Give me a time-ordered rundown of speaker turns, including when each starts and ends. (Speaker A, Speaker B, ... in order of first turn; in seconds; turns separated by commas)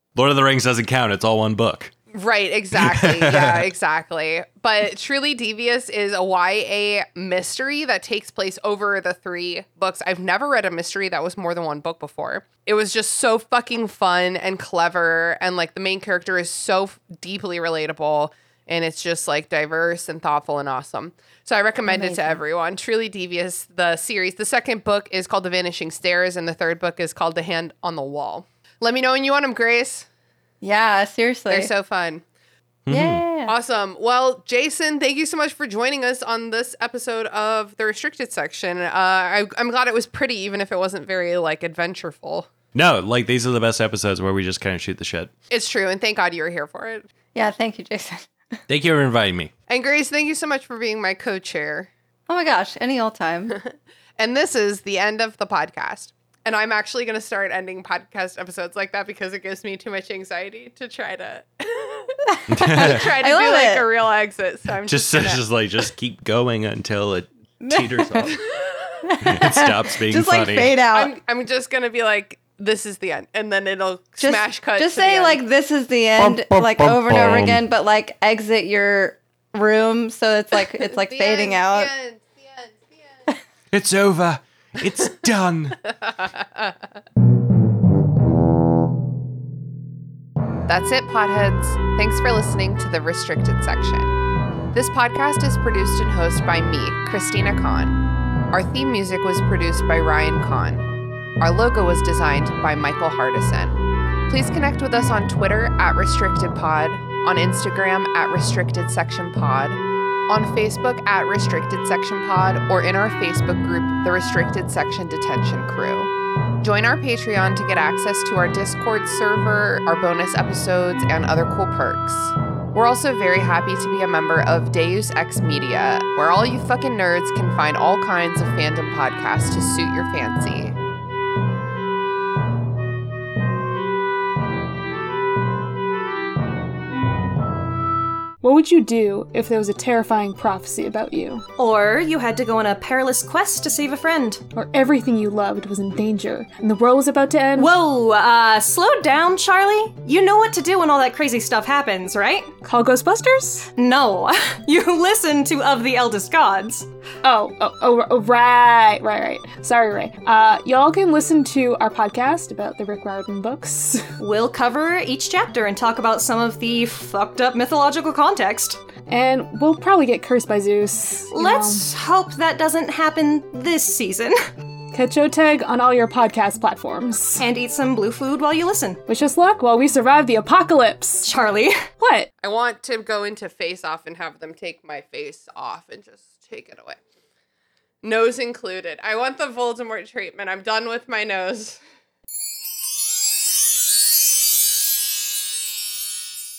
Speaker A: 0.2-1.9, Speaker B: 2.1-30.1, Speaker A: 2.8-3.6, Speaker C: 21.9-22.4, Speaker C: 30.6-31.7, Speaker B: 31.5-32.2, Speaker A: 32.9-33.2, Speaker C: 32.9-33.5, Speaker B: 33.5-42.5, Speaker A: 42.7-45.3, Speaker B: 45.5-47.1, Speaker C: 47.3-48.6, Speaker A: 48.7-49.5, Speaker B: 49.7-51.9, Speaker C: 52.3-53.6, Speaker B: 53.6-65.4, Speaker C: 62.3-63.9, Speaker A: 62.5-63.0, Speaker A: 64.9-68.4, Speaker C: 67.6-68.3, Speaker B: 68.5-69.1, Speaker C: 69.0-71.2, Speaker A: 69.2-70.8, Speaker B: 70.9-75.4, Speaker C: 74.2-81.9, Speaker A: 76.2-77.6, Speaker B: 80.8-83.2, Speaker A: 83.7-85.8, Speaker B: 85.9-86.8, Speaker B: 90.7-94.1, Speaker B: 94.7-98.0, Speaker B: 98.5-100.9, Speaker B: 101.4-103.8, Speaker B: 104.3-130.8, Speaker D: 138.4-141.4, Speaker E: 141.6-144.4, Speaker D: 144.6-147.7, Speaker E: 147.6-152.6, Speaker D: 152.6-153.7, Speaker E: 153.7-156.9, Speaker D: 157.2-164.1, Speaker E: 164.2-168.8, Speaker D: 169.1-171.8, Speaker E: 171.3-174.4, Speaker D: 174.9-177.5, Speaker E: 177.4-179.0, Speaker D: 179.1-181.3, Speaker E: 181.2-181.8, Speaker D: 182.0-182.3, Speaker B: 182.4-187.0, Speaker B: 188.0-191.8